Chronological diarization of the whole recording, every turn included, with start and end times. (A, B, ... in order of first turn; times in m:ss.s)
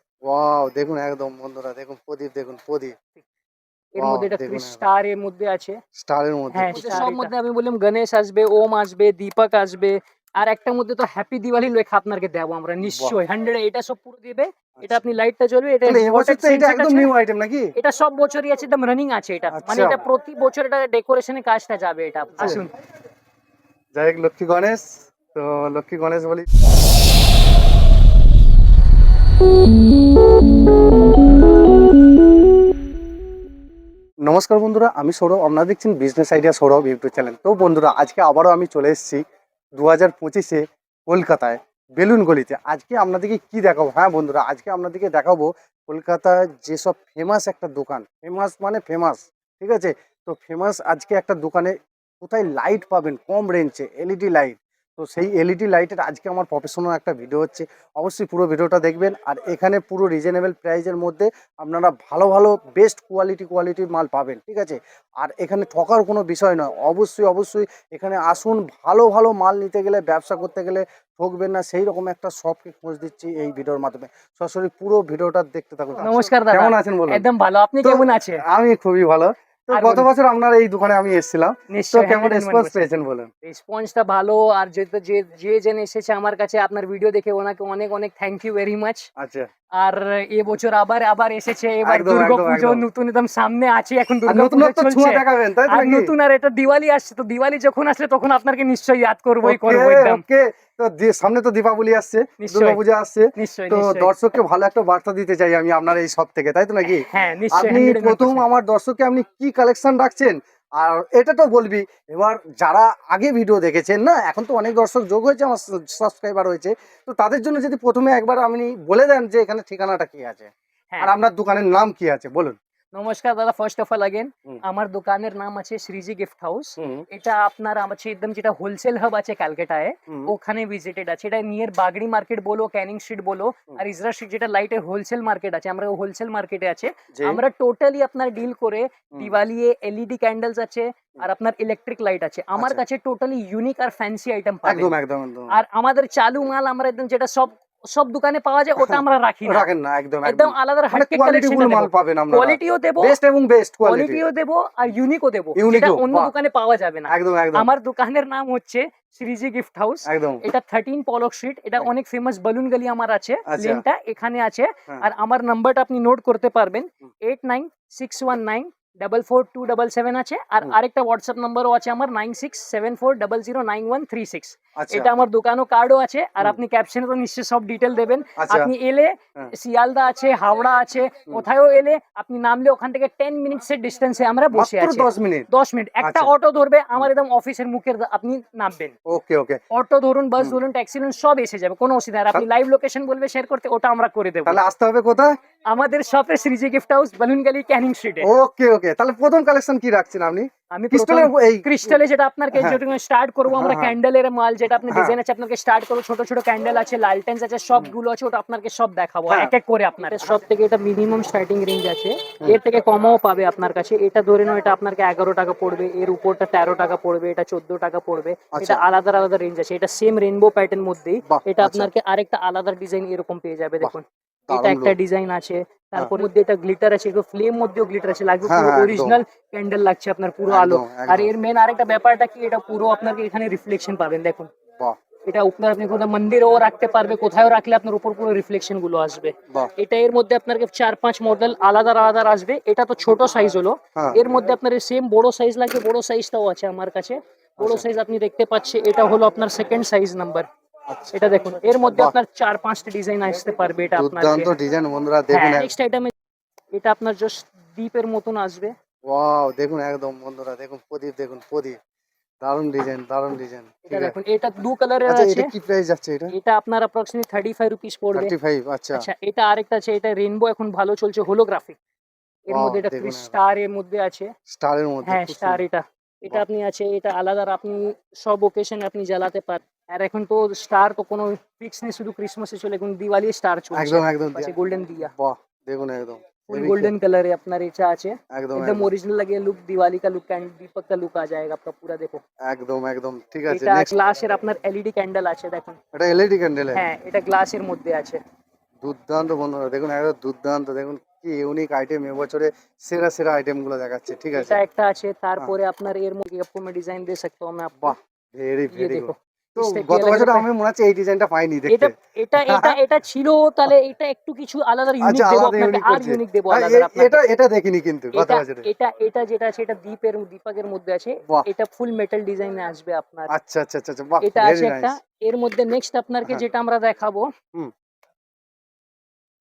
0:00.2-0:03.0 A
0:04.0-0:05.8 B
0:04.0-0:04.8 A
0:06.0-0:07.3 A
0:06.5-0:17.1 B
0:12.8-0:13.2 A
0:15.8-0:17.7 A
0:17.8-0:22.7 B
0:19.5-0:20.0 A
0:23.9-0:26.4 A
0:34.2-0:39.2 A
0:39.8-1:17.2 A
1:16.0-1:18.4 B
1:17.8-1:23.3 A
1:19.7-1:20.1 B
1:21.7-1:22.8 B
1:23.4-1:29.1 B
1:29.2-1:29.5 A
1:29.8-1:40.2 B
1:31.8-1:32.8 A
1:34.2-1:36.1 A
1:39.4-2:02.6 A
1:42.4-1:42.8 B
1:43.4-1:44.1 B
1:47.0-1:48.4 B
2:02.9-2:24.9 B
2:06.8-2:07.0 A
2:17.1-2:17.4 A
2:22.6-2:22.8 A
2:24.6-2:25.5 A
2:25.5-2:29.6 B
2:28.8-2:34.2 A
2:30.2-2:33.2 B
2:33.8-3:09.0 B
2:35.6-2:36.3 A
2:37.1-2:37.6 A
2:40.0-2:40.4 A
2:43.5-2:43.8 A
2:54.8-2:55.1 A
2:58.4-2:58.7 A
3:04.5-3:05.5 A
3:06.0-3:06.3 A
3:09.1-3:09.6 A
3:09.7-3:14.6 B
3:14.4-3:15.3 A
3:15.7-3:18.3 B
3:18.2-3:22.0 A
3:20.7-3:54.5 B
3:22.5-3:22.8 A
3:23.5-3:23.9 A
3:24.9-3:25.2 A
3:29.3-3:29.5 A
3:38.5-3:38.8 A
3:41.2-3:41.9 A
3:44.5-3:45.0 A
3:48.4-3:49.2 A
3:50.5-3:51.3 A
3:55.3-4:10.4 B
4:07.6-4:07.8 A
4:10.9-4:11.2 A
4:11.1-4:14.5 B
4:14.0-4:15.7 A
4:15.3-4:16.1 B
4:16.7-4:18.7 B
4:19.1-4:21.8 A
4:22.4-4:24.1 A
4:23.8-4:25.5 B
4:25.1-4:26.3 A
4:26.3-4:28.3 B
4:28.1-4:29.1 A
4:28.9-4:31.8 B
4:32.5-4:34.3 B
4:32.5-4:33.3 A
4:34.5-4:35.6 A
4:35.0-4:45.1 B
4:43.7-4:46.9 A
4:46.5-4:52.2 B
4:48.3-4:48.9 A
4:52.4-4:53.9 A
4:53.5-4:55.8 B
4:55.9-4:56.8 A
4:56.7-4:58.2 B
4:58.8-5:04.6 A
5:04.4-5:08.0 B
5:07.8-5:12.8 A
5:08.7-5:10.4 B
5:11.7-5:17.2 B
5:15.0-5:18.7 A
5:18.1-5:23.3 B
5:23.3-5:24.9 A
5:24.2-5:27.3 B